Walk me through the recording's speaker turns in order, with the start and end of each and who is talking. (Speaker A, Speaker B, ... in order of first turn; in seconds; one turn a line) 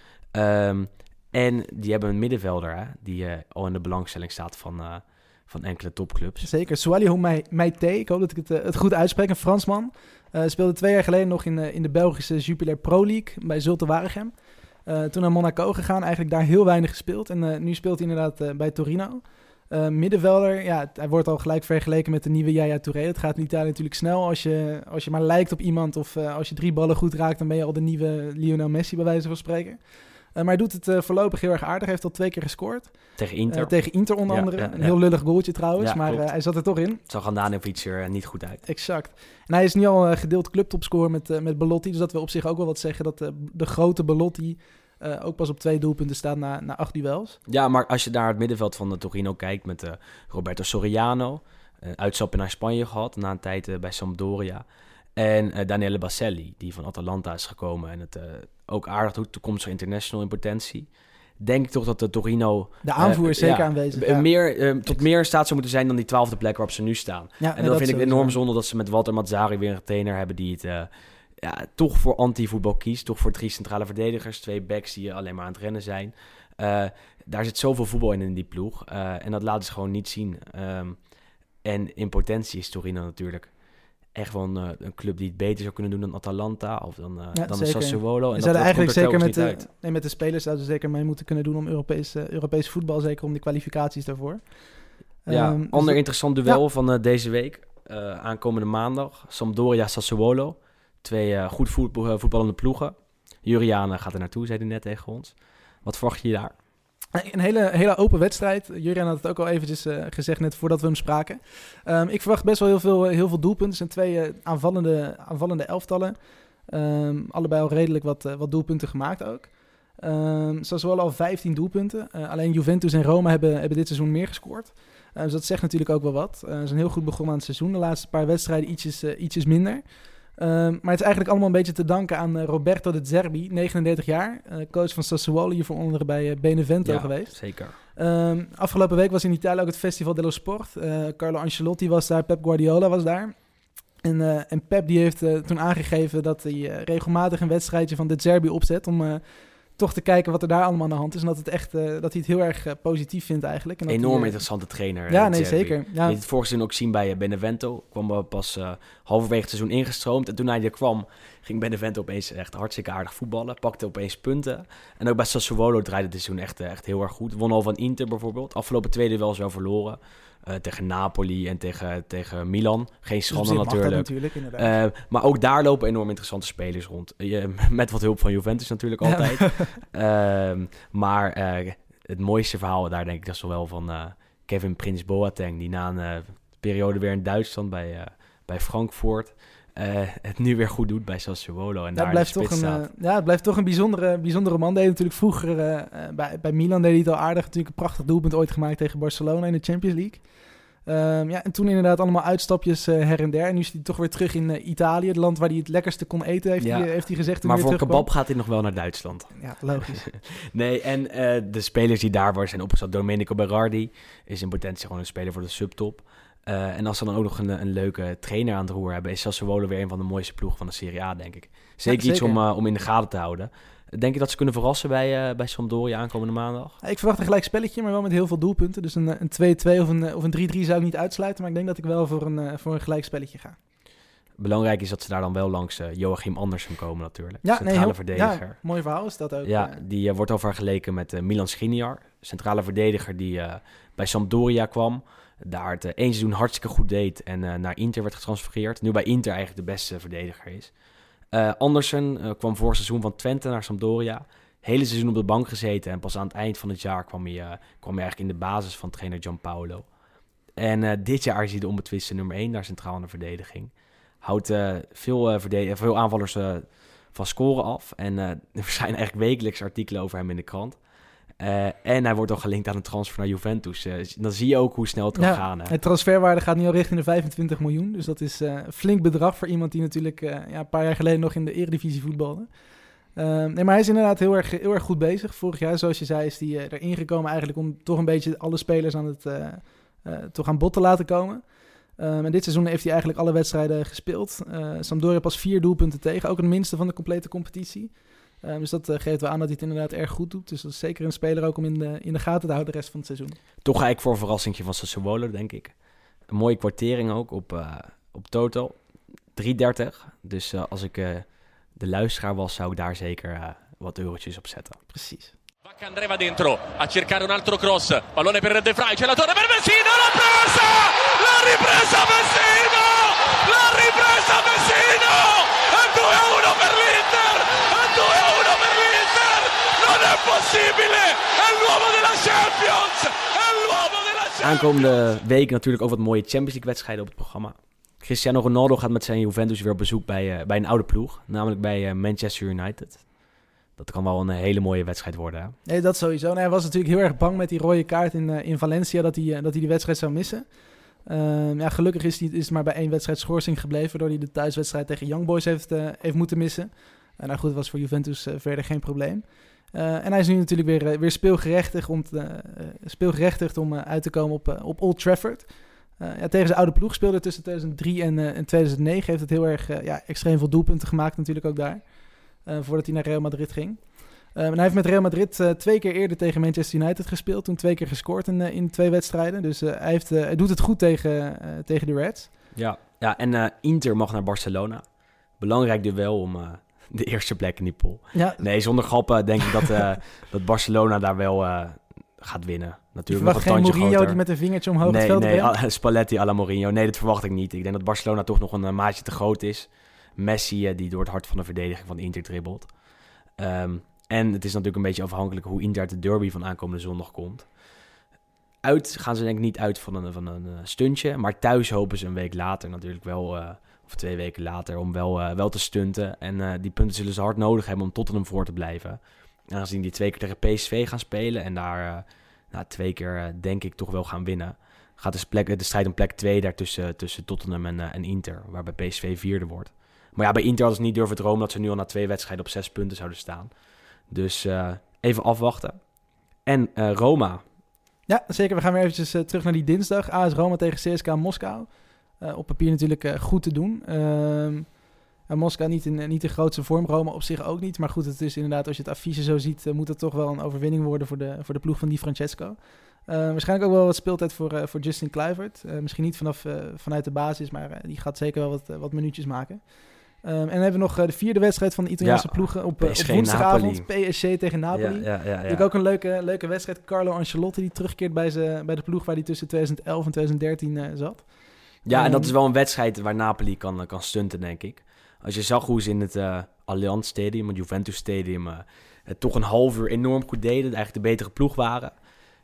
Speaker A: 0.3-6.5
Speaker B: 6.4-37.0
Speaker A: 33.2-36.3
Speaker A: 37.0-38.6
Speaker B: 38.6-47.4
Speaker A: 47.5-54.6
Speaker A: 55.1-81.0
Speaker B: 62.8-65.0
Speaker B: 67.4-68.4
Speaker A: 81.6-83.5
Speaker A: 84.1-89.7
Speaker B: 87.3-96.6
Speaker A: 95.3-106.5
Speaker B: 107.1-143.4
Speaker A: 136.8-137.7
Speaker B: 144.0-154.4
Speaker A: 153.9-192.8
Speaker B: 155.1-156.2
Speaker B: 173.3-174.8
Speaker B: 179.0-179.8
Speaker B: 191.9-208.1
Speaker A: 206.6-226.8
Speaker B: 209.3-210.1
Speaker B: 221.9-222.4
Speaker B: 226.8-233.6
Speaker A: 234.4-238.6
Speaker B: 237.4-239.8
Speaker A: 239.4-250.7
Speaker A: 251.3-259.9
Speaker A: 260.6-270.8
Speaker A: 271.4-275.7
Speaker B: 275.1-282.6
Speaker B: 283.1-303.4
Speaker A: 303.6-305.7
Speaker A: 306.3-308.8
Speaker A: 309.3-314.8
Speaker B: 314.9-315.3
Speaker C: 315.6-335.1
Speaker A: 334.4-343.1
Speaker A: 343.8-345.6
Speaker B: 345.6-382.3
Speaker A: 382.5-384.8
Speaker A: 385.4-394.2
Speaker B: 388.1-388.4
Speaker B: 393.1-395.5
Speaker A: 394.8-402.8
Speaker A: 403.4-407.5
Speaker A: 408.6-433.5
Speaker A: 434.1-435.8
Speaker A: 436.4-437.4
Speaker B: 438.1-472.3
Speaker A: 462.0-463.9
Speaker A: 464.7-465.7
Speaker A: 471.8-481.9